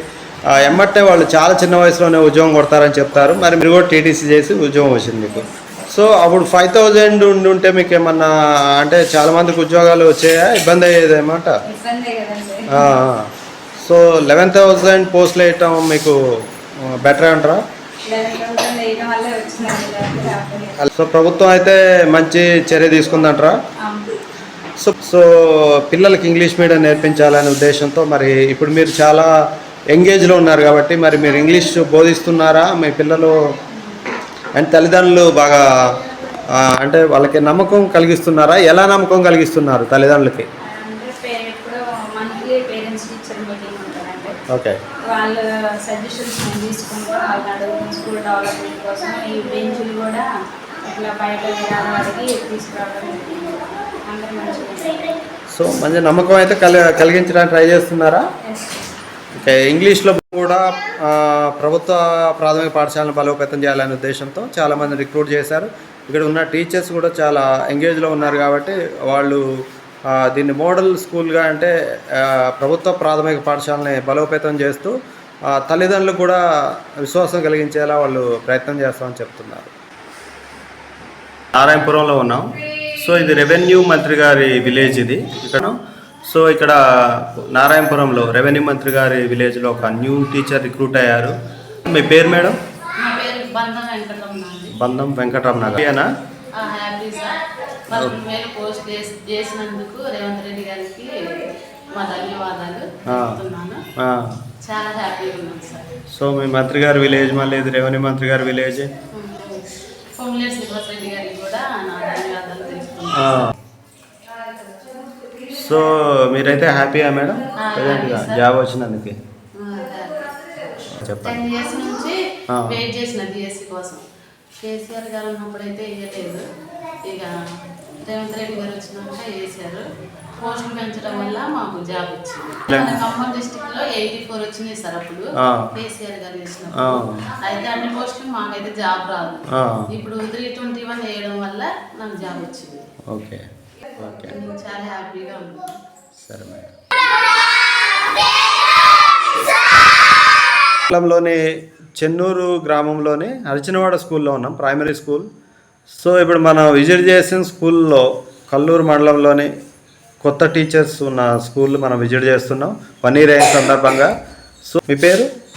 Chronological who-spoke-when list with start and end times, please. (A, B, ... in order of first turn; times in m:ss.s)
0:00.6-0:11.6 A
0:11.7-0:13.0 B
0:12.7-0:16.2 A
0:16.8-0:17.6 A
0:18.1-0:20.8 B
0:20.8-0:23.6 A
0:23.8-0:24.1 B
0:24.8-0:29.3 A
0:29.9-0:33.4 A
0:33.7-0:34.0 B
0:34.6-0:35.6 A
0:36.6-0:40.5 A
0:40.6-0:44.4 B
0:44.5-0:44.8 A
0:45.1-0:50.3 B
0:50.8-0:55.1 B
0:55.5-0:58.2 A
0:58.5-0:58.8 B
0:59.4-1:09.4 A
1:10.1-1:15.0 A
1:15.5-1:19.7 A
1:21.5-1:31.4 A
1:31.9-1:32.6 A
1:33.0-1:34.8 C
1:34.8-1:36.1 A
1:36.6-1:41.1 C
1:42.0-1:43.8 C
1:43.1-1:43.4 A
1:44.0-1:44.4 A
1:44.6-1:45.9 C
1:46.1-1:48.9 A
1:49.1-1:53.5 C
1:53.2-1:53.5 A
1:55.5-1:59.2 A
1:57.6-1:58.5 C
1:59.6-2:00.4 C
2:00.9-2:01.4 A
2:01.2-2:04.0 C
2:02.5-2:02.8 A
2:04.6-2:06.4 C
2:07.1-2:07.3 C
2:08.0-2:09.8 C
2:10.4-2:22.8 C
2:12.7-2:13.1 A
2:15.4-2:15.7 A
2:16.8-2:17.3 A
2:19.5-2:19.9 A
2:23.1-2:23.4 A
2:24.0-2:24.4 A
2:24.2-2:25.7 C
2:26.2-2:26.7 A
2:30.9-2:31.4 A
2:32.0-2:35.3 A
2:35.9-2:39.5 A
2:40.2-2:44.1 A
2:44.7-2:45.3 A